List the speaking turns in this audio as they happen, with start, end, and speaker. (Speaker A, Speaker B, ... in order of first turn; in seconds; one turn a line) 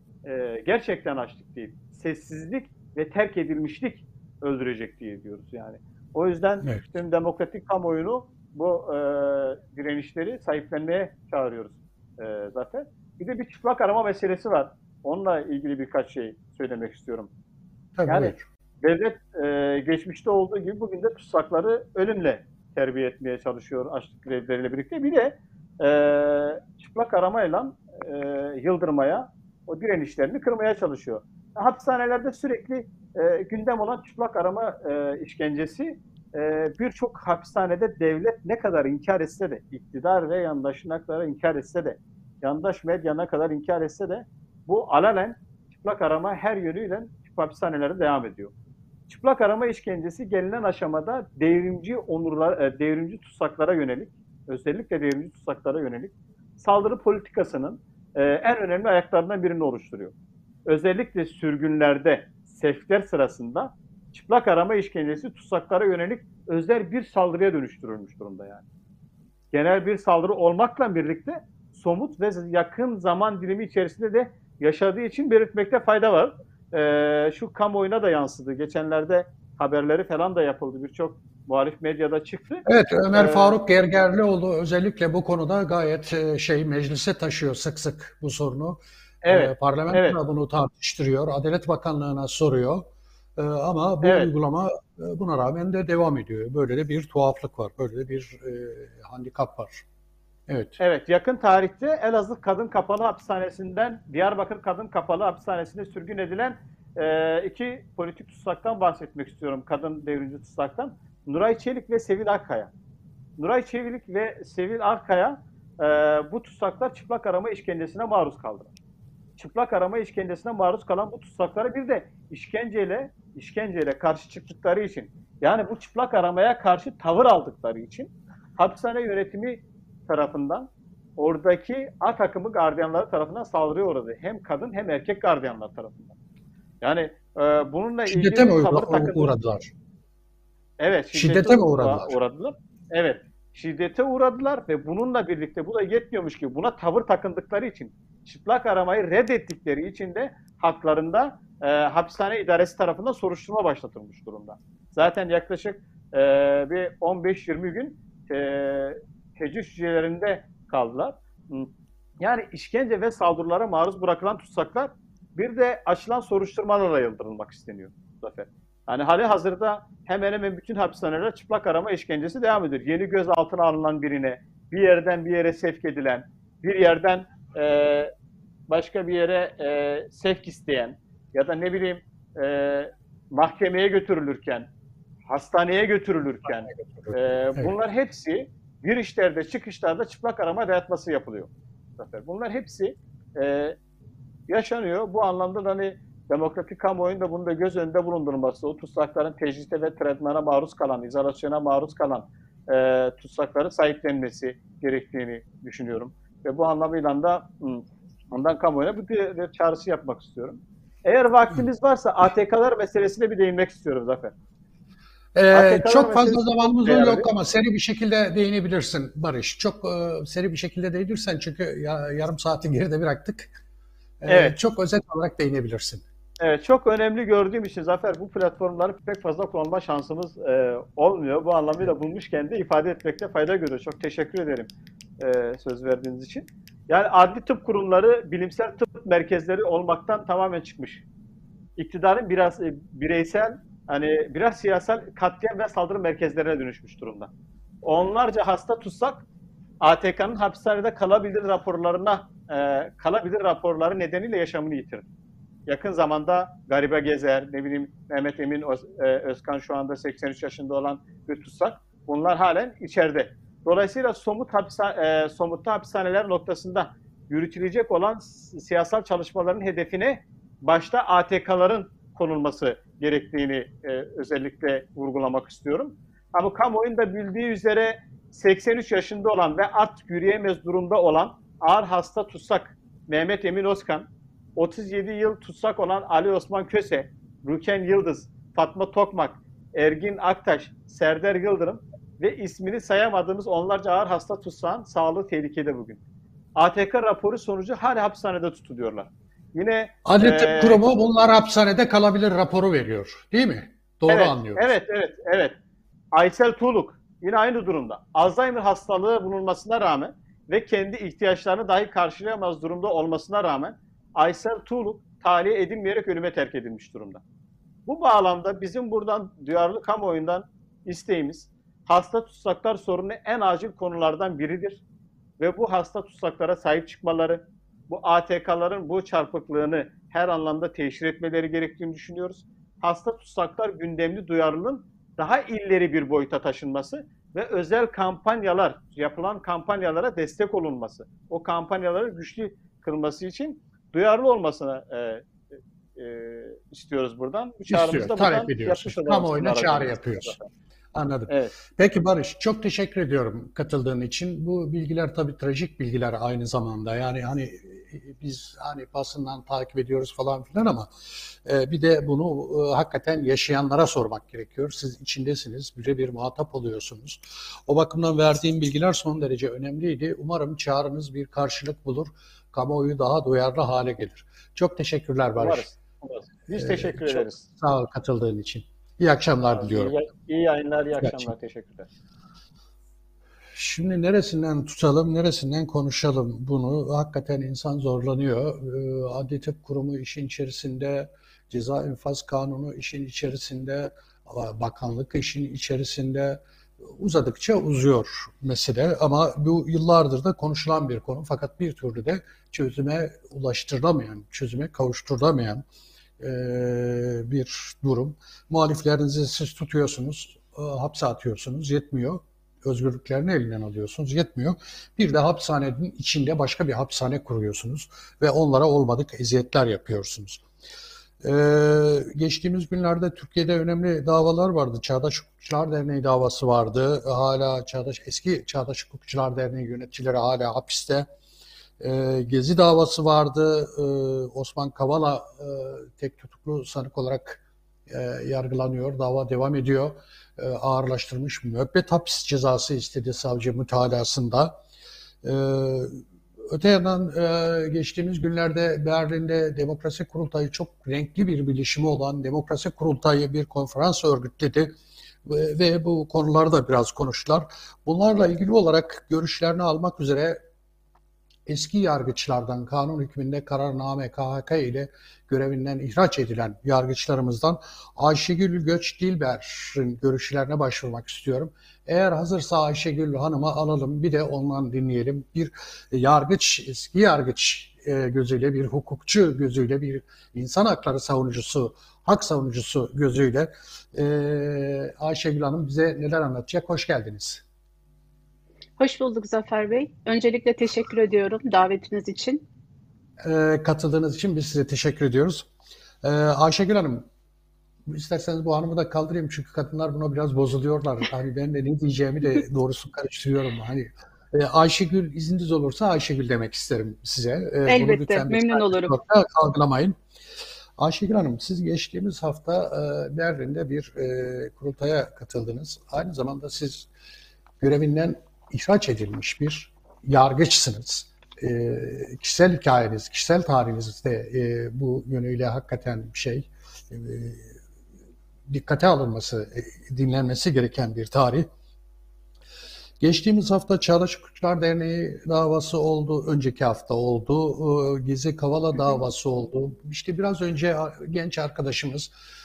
Speaker A: 0.2-17.3
Speaker B: 6.6-6.9
Speaker B: 17.9-18.4
Speaker A: 18.1-48.5
Speaker A: 49.1-60.1
Speaker A: 60.6-68.6
Speaker A: 69.5-83.6
Speaker B: 82.6-99.8
Speaker A: 89.2-90.2
Speaker A: 94.0-94.3
Speaker B: 100.5-100.8
Speaker A: 100.8-112.7
Speaker A: 113.4-118.7
Speaker A: 119.4-136.1
Speaker A: 136.8-139.3
Speaker B: 138.1-139.7
Speaker A: 140.8-178.1
Speaker B: 141.1-142.2
Speaker A: 178.7-184.7
Speaker A: 185.3-193.8
Speaker B: 186.7-187.7
Speaker A: 194.5-214.3
Speaker B: 215.3-223.5
Speaker A: 215.5-217.3
Speaker B: 224.2-226.0
Speaker A: 224.3-224.6
Speaker A: 226.4-234.7
Speaker A: 235.2-241.0
Speaker A: 241.8-247.3
Speaker A: 247.8-249.2
Speaker A: 249.8-255.0
Speaker A: 255.7-296.0
Speaker A: 296.6-300.9
Speaker B: 300.0-304.7
Speaker A: 304.1-305.5
Speaker A: 306.1-317.2
Speaker A: 317.9-324.8
Speaker A: 325.4-345.2
Speaker A: 346.0-350.4
Speaker B: 347.7-350.4
Speaker B: 350.9-360.9
Speaker A: 351.3-351.5
Speaker B: 361.4-375.7
Speaker A: 375.4-377.4
Speaker B: 376.5-379.9
Speaker A: 379.5-381.9
Speaker B: 381.0-381.3
Speaker B: 383.5-405.6
Speaker B: 406.2-420.4
Speaker B: 421.2-431.1
Speaker B: 431.8-444.6
Speaker B: 445.2-454.7
Speaker B: 455.2-460.4
Speaker B: 461.4-487.4
Speaker C: 488.8-492.4
Speaker B: 493.2-495.5
Speaker B: 496.0-497.1
Speaker B: 497.9-509.9
Speaker C: 507.7-508.9
Speaker B: 510.8-516.9
Speaker B: 517.6-527.6
Speaker B: 528.5-531.5
Speaker B: 533.0-542.1